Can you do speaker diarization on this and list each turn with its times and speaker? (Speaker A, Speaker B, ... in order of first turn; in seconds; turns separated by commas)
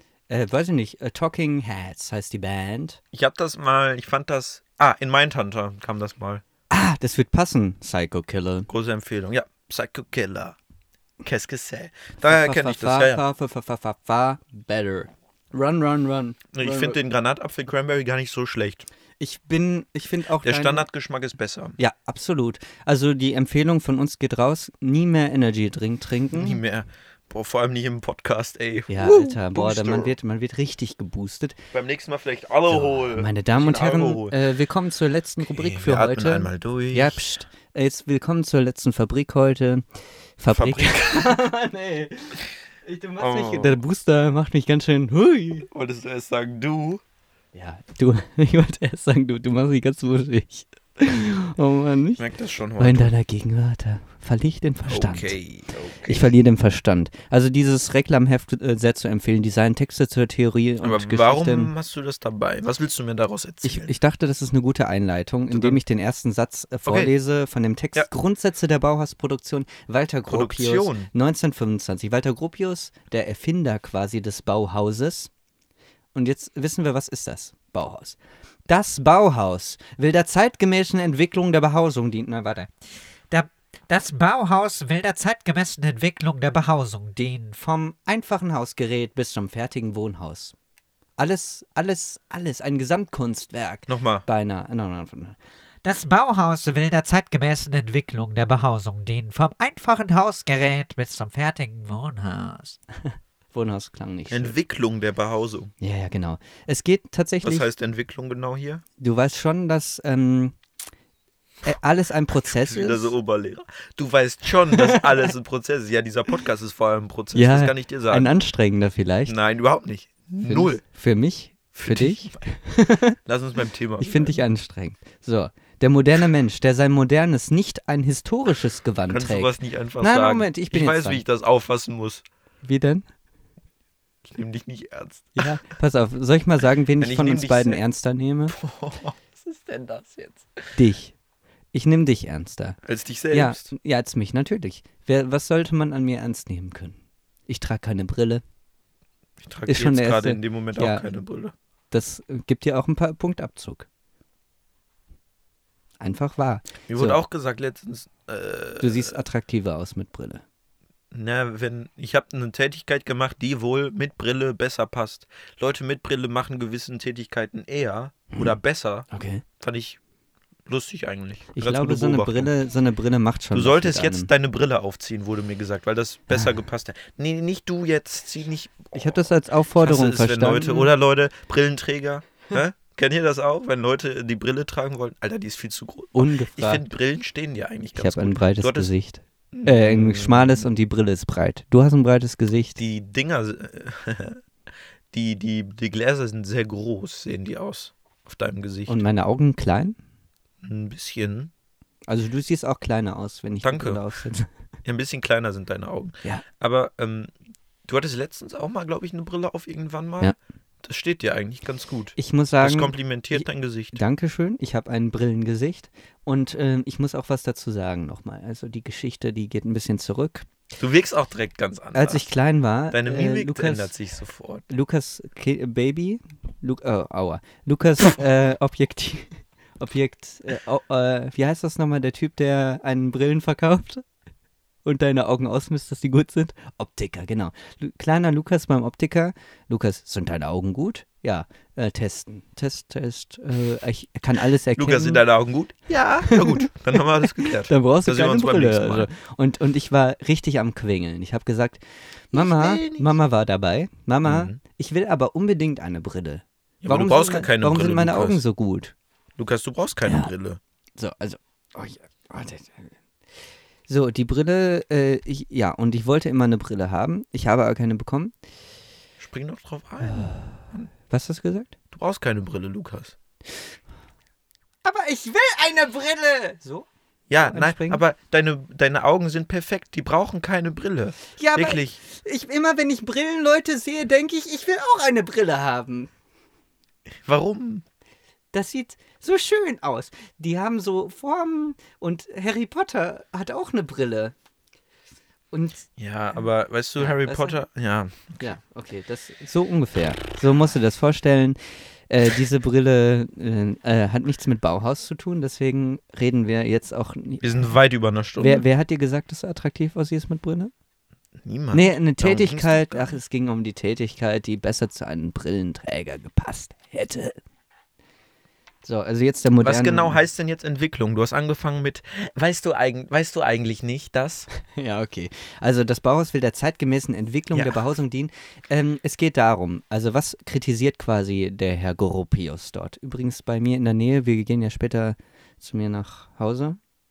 Speaker A: 0.3-3.0, Speaker B: 3.1-6.4, Speaker A: 6.7-8.7, Speaker B: 8.7-10.6, Speaker B: 11.2-13.2, Speaker A: 12.2-17.0, Speaker B: 16.5-18.9, Speaker A: 19.2-20.9, Speaker B: 20.4-21.8, Speaker A: 21.8-26.6, Speaker B: 26.3-30.1, Speaker A: 28.9-31.6, Speaker B: 31.7-34.4, Speaker A: 32.7-39.8, Speaker B: 35.4-37.2, Speaker A: 40.4-45.7, Speaker B: 40.5-41.4, Speaker B: 43.2-43.8, Speaker B: 45.7-47.0, Speaker A: 47.5-52.2, Speaker B: 52.2-53.1, Speaker A: 52.8-55.3, Speaker B: 54.9-56.3, Speaker A: 56.0-61.7, Speaker B: 60.8-63.9, Speaker A: 63.6-75.3, Speaker B: 65.5-65.8, Speaker B: 66.9-67.1, Speaker B: 70.3-71.1, Speaker A: 76.1-78.2, Speaker A: 78.7-82.7, Speaker C: 83.3-87.6, Speaker A: 87.6-90.5, Speaker A: 91.2-95.4, Speaker B: 93.9-94.2, Speaker C: 95.8-102.8, Speaker A: 103.5-104.5, Speaker B: 104.3-105.7, Speaker A: 105.8-107.7, Speaker B: 107.4-108.8, Speaker A: 109.0-110.5, Speaker A: 111.6-113.1, Speaker B: 112.4-118.3, Speaker A: 114.7-115.3, Speaker A: 117.3-119.3, Speaker B: 119.3-120.8, Speaker A: 120.4-123.2, Speaker B: 121.7-122.4, Speaker B: 123.2-124.4, Speaker A: 124.0-131.2, Speaker B: 129.1-132.2, Speaker A: 132.6-133.1, Speaker B: 134.2-135.5, Speaker A: 135.3-138.6, Speaker B: 137.0-137.8, Speaker B: 138.5-140.6, Speaker A: 140.7-141.1, Speaker A: 141.7-142.8, Speaker B: 142.8-143.7, Speaker A: 143.3-147.0, Speaker A: 147.5-148.4, Speaker B: 149.4-151.5, Speaker A: 149.7-151.2, Speaker A: 151.9-153.8, Speaker A: 156.0-157.2, Speaker B: 156.9-159.2, Speaker A: 158.8-160.4, Speaker B: 161.1-169.1, Speaker A: 169.1-169.4, Speaker B: 169.6-170.0, Speaker B: 170.7-172.5, Speaker A: 171.6-174.3, Speaker B: 173.5-179.3, Speaker A: 178.9-180.9, Speaker B: 179.8-188.9, Speaker A: 186.1-186.8, Speaker A: 187.9-192.8, Speaker B: 189.5-190.7, Speaker B: 192.8-194.4, Speaker B: 195.1-199.0, Speaker A: 198.9-200.0, Speaker B: 200.6-201.5, Speaker A: 202.1-204.5, Speaker B: 203.6-204.0, Speaker B: 204.8-207.3, Speaker B: 207.9-214.0, Speaker A: 212.2-220.5, Speaker B: 220.8-222.2, Speaker A: 221.9-223.9, Speaker B: 222.9-224.6, Speaker A: 224.7-234.1, Speaker A: 234.8-245.2, Speaker B: 244.7-249.1, Speaker A: 246.2-258.9, Speaker B: 252.3-253.1, Speaker B: 254.2-254.6, Speaker B: 256.8-258.4, Speaker B: 259.4-260.6, Speaker A: 260.1-260.3, Speaker A: 261.0-262.9, Speaker A: 263.9-268.3, Speaker B: 269.2-270.9, Speaker A: 270.0-271.7, Speaker B: 271.9-273.1, Speaker A: 274.8-276.9, Speaker B: 277.3-282.0, Speaker A: 277.4-278.0, Speaker A: 281.3-286.1, Speaker B: 287.2-287.9, Speaker A: 288.5-294.3, Speaker A: 295.5-295.9, Speaker B: 296.0-298.5, Speaker A: 297.0-297.6, Speaker A: 298.4-307.7, Speaker B: 307.4-308.6, Speaker A: 308.4-310.7, Speaker B: 311.4-313.2, Speaker A: 311.7-317.4, Speaker A: 318.8-320.2, Speaker B: 319.6-324.5, Speaker A: 324.6-336.8, Speaker B: 327.5-327.8